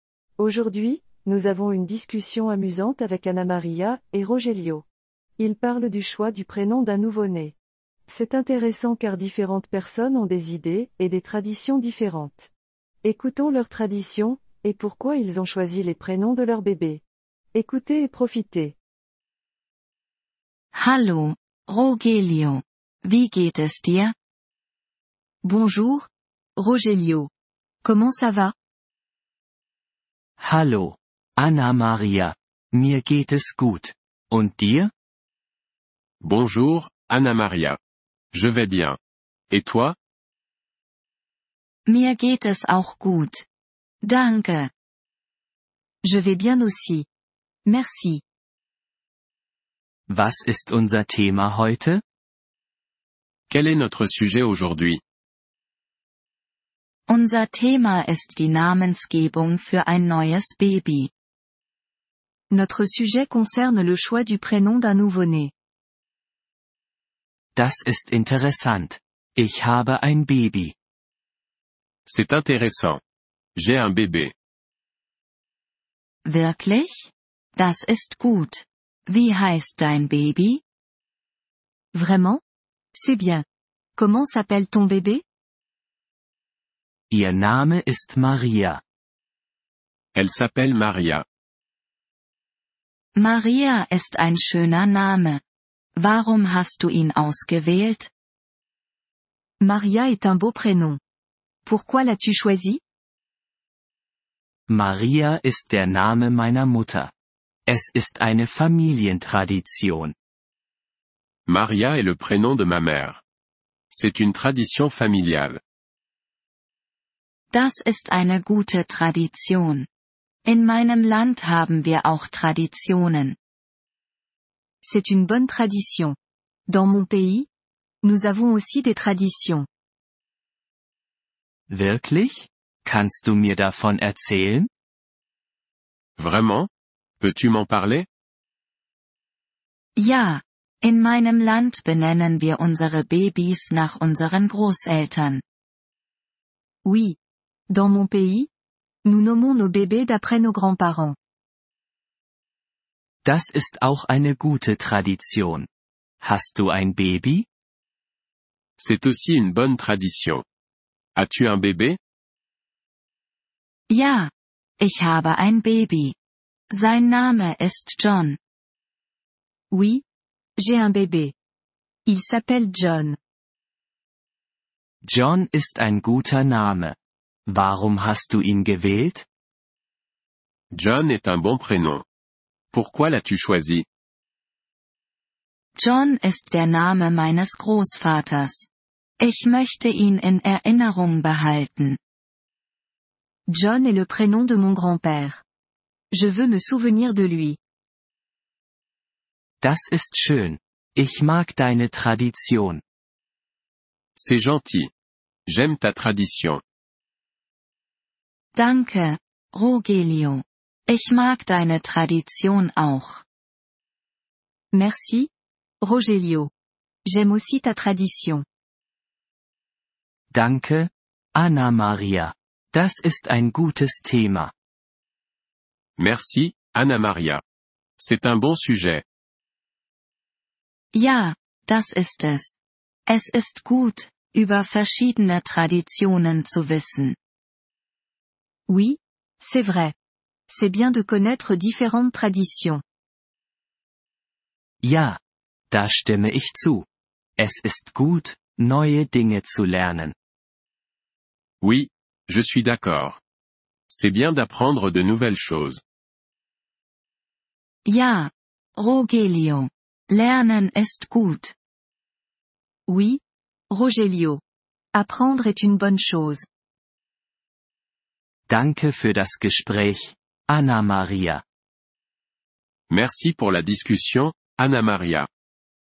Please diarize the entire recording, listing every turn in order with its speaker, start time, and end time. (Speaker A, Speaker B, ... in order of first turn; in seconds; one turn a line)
Speaker A: 0.4-4.9
Speaker A: 5.4-7.6
Speaker A: 8.1-12.5
Speaker A: 13.0-17.0
Speaker A: 17.5-18.8
Speaker B: 20.7-24.1
Speaker C: 25.4-27.3
Speaker C: 27.8-28.5
Speaker D: 30.4-34.9
Speaker E: 36.2-37.8
Speaker E: 38.3-39.0
Speaker E: 39.5-40.0
Speaker B: 41.9-43.5
Speaker B: 44.0-44.7
Speaker C: 46.0-47.1
Speaker C: 47.7-48.2
Speaker D: 50.1-52.0
Speaker E: 53.5-55.0
Speaker B: 57.1-61.1
Speaker C: 62.5-65.5
Speaker D: 67.5-70.8
Speaker E: 72.1-73.0
Speaker E: 73.6-74.3
Speaker B: 76.2-80.6
Speaker C: 81.9-82.4
Speaker C: 83.0-83.4
Speaker C: 84.0-85.2
Speaker D: 87.1-88.8
Speaker E: 90.2-91.2
Speaker B: 93.2-95.4
Speaker B: 96.0-98.1
Speaker C: 99.6-101.0
Speaker C: 101.7-102.8
Speaker D: 104.7-107.1
Speaker D: 107.7-110.1
Speaker E: 111.5-113.2
Speaker E: 113.9-115.6
Speaker B: 117.5-119.9
Speaker B: 120.5-123.4
Speaker C: 124.8-126.2
Speaker C: 126.7-127.5
Speaker C: 128.0-129.7
Speaker D: 131.7-134.7
Speaker E: 136.2-136.7
Speaker E: 137.2-138.1
Speaker B: 140.0-145.4
Speaker C: 146.8-147.2
Speaker C: 147.7-148.5
Speaker C: 149.1-151.2
Speaker D: 153.2-155.7
Speaker D: 156.2-157.5
Speaker E: 158.8-160.4
Speaker E: 161.2-162.0
Speaker B: 163.9-166.2
Speaker B: 166.7-168.4
Speaker C: 169.7-170.0
Speaker C: 170.6-171.3
Speaker C: 172.1-173.2
Speaker D: 175.0-176.9
Speaker D: 177.5-179.3
Speaker E: 180.7-182.0
Speaker E: 182.7-183.9
Speaker B: 185.8-188.7
Speaker B: 189.2-192.0
Speaker C: 193.5-195.4
Speaker C: 196.1-197.6
Speaker D: 199.6-202.8
Speaker E: 204.2-204.9
Speaker E: 205.5-206.6
Speaker B: 208.6-213.2
Speaker C: 214.7-215.3
Speaker C: 215.8-216.5
Speaker C: 217.1-218.4
Speaker D: 220.3-224.5
Speaker E: 226.0-227.4
Speaker E: 228.0-229.0
Speaker B: 230.9-232.5
Speaker B: 233.1-237.2
Speaker C: 238.7-239.9
Speaker C: 240.5-242.8
Speaker D: 244.8-245.2
Speaker D: 245.7-246.9
Speaker D: 247.4-250.2
Speaker E: 251.6-253.2
Speaker E: 253.9-255.8
Speaker B: 257.9-261.5
Speaker C: 262.9-264.4
Speaker C: 264.9-266.5
Speaker D: 268.5-271.4
Speaker E: 272.9-275.3